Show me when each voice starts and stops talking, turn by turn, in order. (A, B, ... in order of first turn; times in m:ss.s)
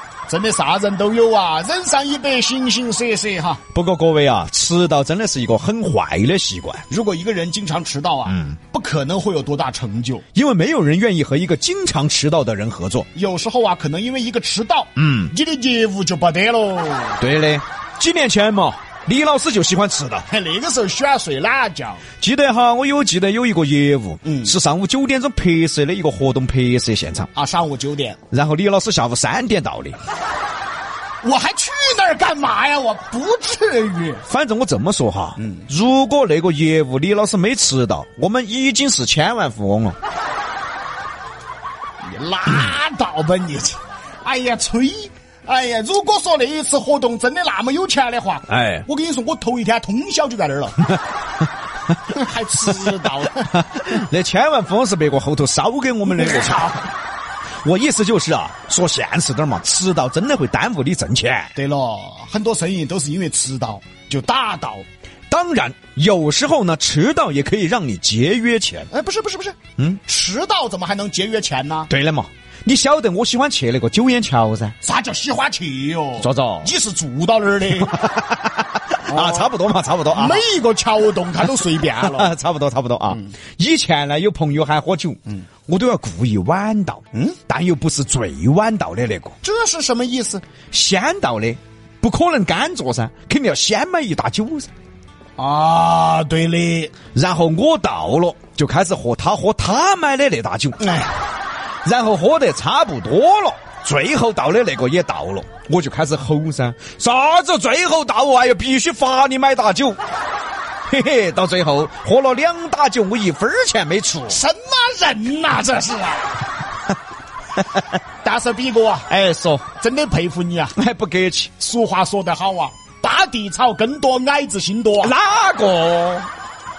0:00.3-0:03.6 A
0:03.7-0:06.8 B
0:06.9-0:10.2 A
0:08.3-0:08.6 B
0:10.3-0:13.1 B
0:13.1-0:17.2 A
0:15.0-0:15.3 B
0:17.2-0:20.3 B
0:20.3-0:22.0 A
0:22.2-0:27.3 B
0:24.2-0:24.5 A
0:27.3-0:28.2 A
0:28.3-0:30.0 B
0:31.2-0:34.2 A
0:34.3-0:40.0 B
0:42.0-0:50.8 A
0:48.5-0:48.8 B
0:52.1-0:53.5 A
0:53.5-0:56.7 B
0:56.1-0:56.8 A
0:57.6-1:01.5 B
1:01.5-1:04.8 A
1:05.3-1:08.9 B
1:08.9-1:11.9 A
1:11.9-1:14.7 B
1:14.8-1:18.0 A
1:16.2-1:16.7 B
1:17.8-1:20.4 B
1:19.1-1:19.5 A
1:20.1-1:22.3 A
1:21.9-1:29.3 B
1:29.4-1:30.4 A
1:30.7-1:34.7 B
1:35.4-1:36.9 A
1:37.1-1:40.8 B
1:40.8-1:41.1 A
1:41.8-1:50.0 B
1:50.9-1:54.4 B
1:54.3-1:56.4 A
1:58.2-1:59.1 A
1:59.1-1:59.6 B
1:59.8-2:00.7 A
2:00.7-2:01.5 B
2:01.6-2:05.1 A
2:05.0-2:06.3 B